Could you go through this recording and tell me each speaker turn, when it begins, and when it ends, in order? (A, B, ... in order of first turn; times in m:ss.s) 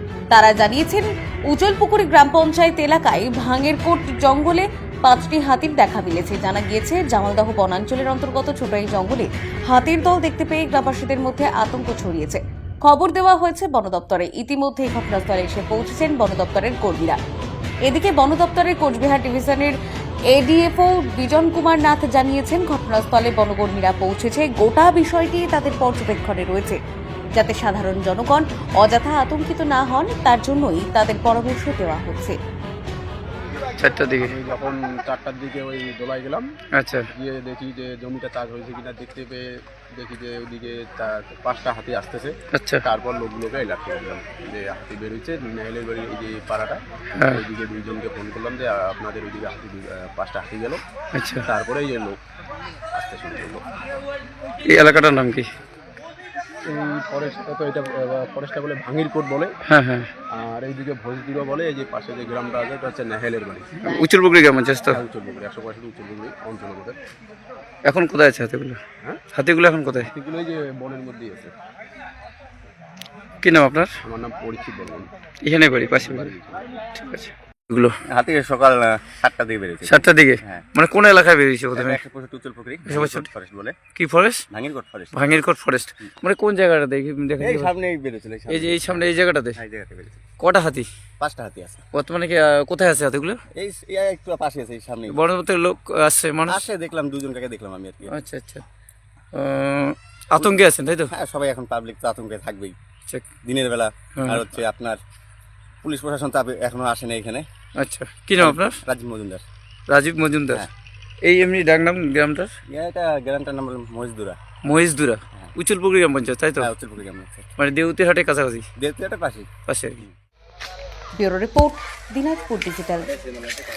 0:00.3-0:17.2 A
0:17.8-0:19.8 A
0:20.3-0:26.8 A
0:27.3-0:32.4 A
0:33.8-0:34.4 B
0:34.2-0:36.5 C
0:36.8-0:37.1 B
0:37.1-0:50.8 C
0:42.5-0:42.8 B
0:51.1-0:51.5 B
0:51.4-0:52.2 C
0:52.9-0:53.6 C
0:54.7-0:55.5 B
0:56.6-0:59.6 C
0:59.7-1:00.1 B
1:00.3-1:03.7 C
1:03.8-1:05.0 B
1:04.9-1:07.0 C
1:07.9-1:08.8 B
1:09.3-1:10.1 B
1:10.0-1:11.5 C
1:13.4-1:13.9 B
1:14.0-1:15.1 C
1:15.4-1:16.3 B
1:15.9-1:16.7 C
1:17.0-1:17.9 B
1:18.1-1:20.7 D
1:19.9-1:22.0 B
1:21.7-1:23.8 D
1:22.9-1:23.3 B
1:24.0-1:24.4 B
1:24.5-1:25.2 D
1:25.1-1:27.7 B
1:27.4-1:30.2 D
1:28.5-1:29.6 B
1:30.4-1:30.9 B
1:31.2-1:31.8 D
1:31.9-1:33.4 B
1:33.6-1:35.2 D
1:35.1-1:36.6 B
1:36.5-1:38.1 D
1:38.1-1:38.6 B
1:39.4-1:41.1 B
1:41.1-1:42.8 D
1:43.4-1:45.0 D
1:44.2-1:44.5 B
1:45.8-1:47.5 D
1:47.8-1:48.8 B
1:48.4-1:49.4 D
1:49.9-1:50.7 B
1:51.2-1:52.5 B
1:52.7-1:54.4 D
1:54.7-1:56.7 B
1:56.6-1:57.5 D
1:57.6-1:58.6 B
1:58.8-1:59.5 D
1:59.7-2:00.0 B
2:01.2-2:03.1 A